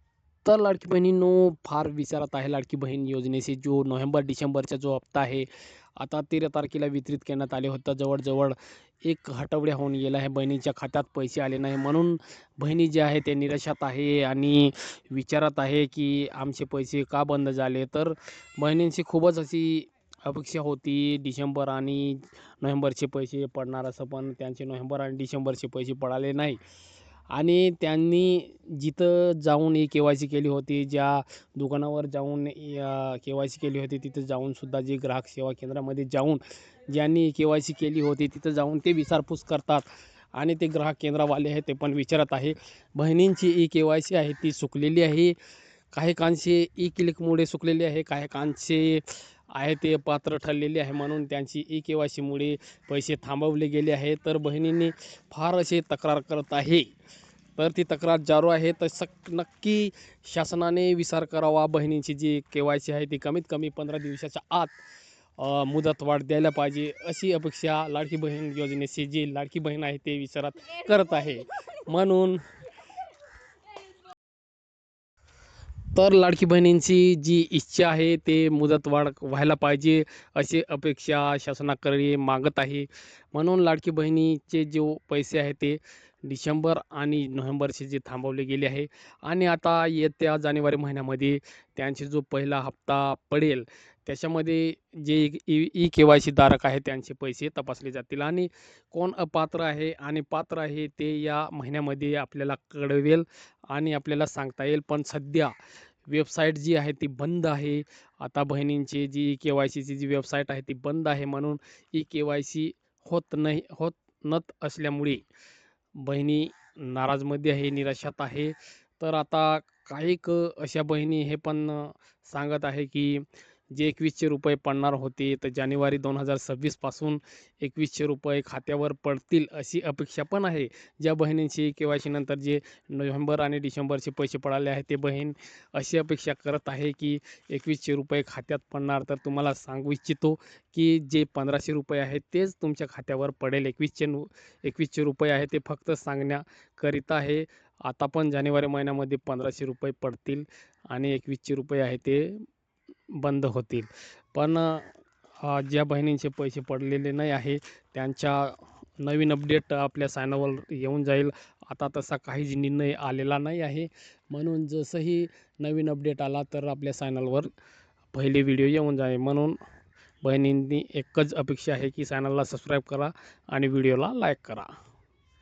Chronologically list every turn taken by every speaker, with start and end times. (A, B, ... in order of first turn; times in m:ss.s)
0:00.4-0:26.6 A
0:27.3-0:45.3 A
0:45.9-0:56.9 A
0:57.6-1:04.8 A
1:05.4-1:12.4 A
1:15.9-1:45.5 A
1:46.1-1:55.2 A
1:56.0-2:32.4 A
2:33.2-2:34.9 A
2:35.4-2:47.5 A
2:48.1-2:49.6 A
2:50.2-2:54.7 A